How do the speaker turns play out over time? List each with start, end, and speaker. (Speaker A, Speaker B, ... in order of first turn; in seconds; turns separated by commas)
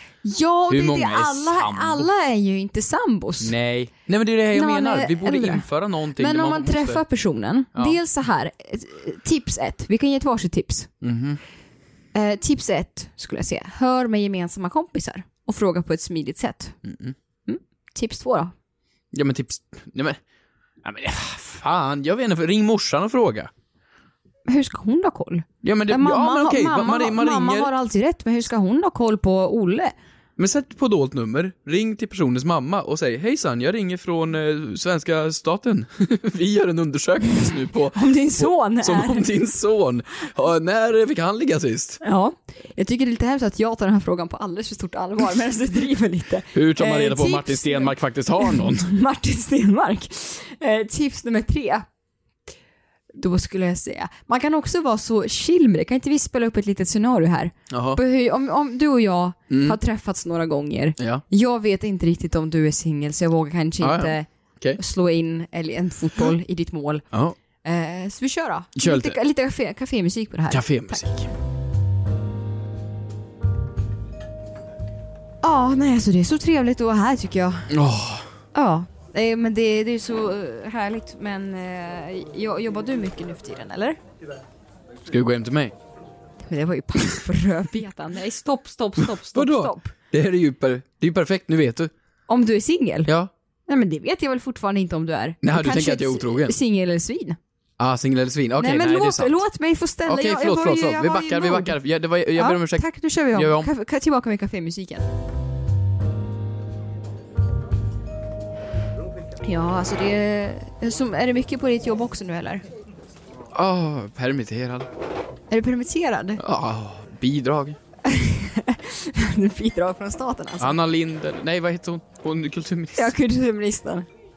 Speaker A: 0.2-3.5, Speaker B: 0.7-2.1, Speaker B: 3.4-7.0, Speaker A: 4.5-5.6, Speaker A: 6.2-10.9, Speaker B: 7.7-8.0, Speaker B: 11.0-11.4, Speaker A: 12.1-16.8, Speaker B: 16.8-17.1, Speaker A: 17.5-18.5, Speaker B: 19.1-20.2, Speaker B: 20.8-23.5, Speaker A: 24.5-29.9, Speaker B: 25.6-27.7, Speaker B: 30.4-42.0, Speaker A: 37.9-39.2, Speaker A: 42.0-51.9, Speaker B: 46.5-48.9, Speaker A: 53.1-67.0, Speaker B: 57.7-58.0, Speaker B: 59.5-59.8, Speaker B: 63.8-64.8, Speaker B: 67.1-67.4, Speaker A: 67.6-71.1, Speaker B: 68.8-69.2, Speaker B: 70.5-71.3, Speaker A: 75.4-77.7, Speaker B: 77.7-78.3, Speaker A: 78.5-84.0, Speaker B: 85.0-85.7, Speaker A: 86.4-89.9, Speaker B: 89.3-91.9, Speaker A: 92.3-93.1, Speaker A: 93.7-97.4, Speaker B: 95.4-96.5, Speaker B: 97.8-99.4, Speaker A: 98.6-101.8, Speaker B: 100.0-103.7, Speaker A: 102.3-105.0, Speaker A: 109.4-112.6, Speaker B: 113.5-114.9, Speaker A: 115.5-116.4, Speaker B: 116.4-117.8, Speaker A: 118.0-120.8, Speaker B: 120.6-123.1, Speaker A: 122.9-124.1